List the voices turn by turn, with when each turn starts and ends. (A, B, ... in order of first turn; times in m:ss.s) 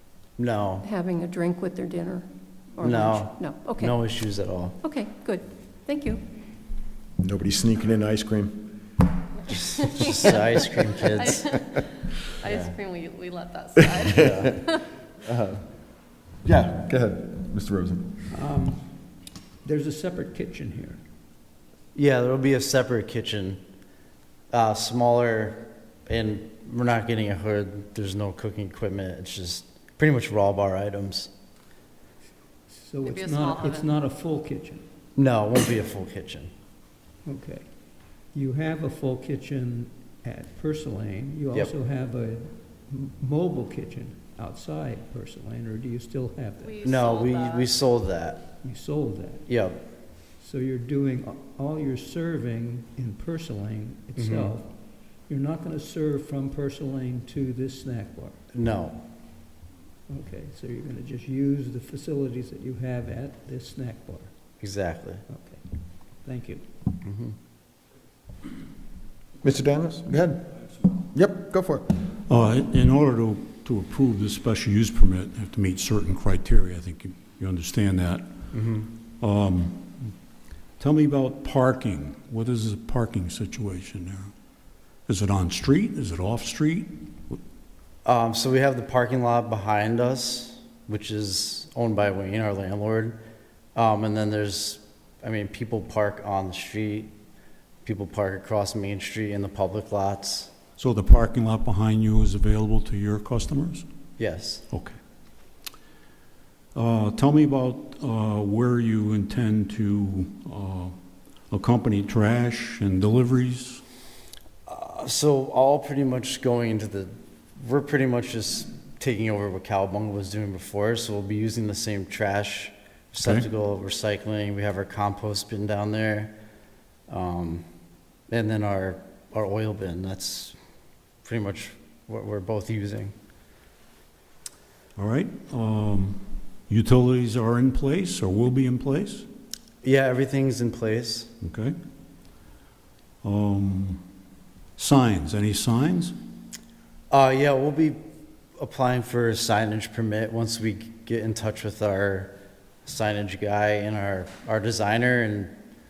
0:00.4-0:00.9 A
0:00.8-0:04.0 B
0:02.8-0:04.8 A
0:04.8-0:06.2 B
0:07.2-0:08.7 C
0:09.5-0:11.5 A
0:11.1-0:11.9 D
0:12.4-0:14.8 D
0:12.4-0:12.7 A
0:13.8-0:14.4 C
0:14.0-0:14.6 A
0:15.2-0:15.6 C
0:16.4-0:18.1 C
0:18.3-0:18.9 E
0:19.6-0:21.0 E
0:22.0-0:23.6 A
0:24.5-0:31.3 A
0:32.7-0:34.8 E
0:33.0-0:33.9 D
0:35.2-0:36.5 A
0:37.2-0:37.6 E
0:38.3-0:46.8 E
0:46.6-0:47.7 D
0:46.8-0:48.5 A
0:48.6-0:49.5 E
0:49.5-0:49.8 A
0:50.4-0:54.7 E
0:54.2-0:54.5 A
0:55.3-0:58.4 E
0:58.5-0:59.0 A
1:00.1-1:04.3 E
1:04.6-1:05.2 A
1:05.3-1:05.6 E
1:06.2-1:06.7 E
1:07.0-1:07.3 A
1:09.4-1:10.4 C
1:11.1-1:11.9 C
1:12.3-1:18.3 F
1:18.5-1:18.9 A
1:19.1-1:20.1 F
1:20.8-1:24.3 F
1:25.1-1:27.4 F
1:28.0-1:33.2 A
1:33.8-1:37.1 A
1:37.8-1:40.5 A
1:40.8-1:43.8 F
1:44.2-1:44.6 A
1:44.7-1:45.0 F
1:46.8-1:51.0 F
1:51.5-1:53.8 F
1:54.7-2:06.4 A
2:07.1-2:07.6 A
2:08.3-2:10.6 A
2:11.2-2:13.1 A
2:15.0-2:19.3 F
2:19.8-2:21.3 A
2:21.4-2:21.8 F
2:23.2-2:24.0 F
2:24.8-2:26.2 F
2:27.1-2:28.0 A
2:28.6-2:32.3 A
2:32.8-2:35.5 A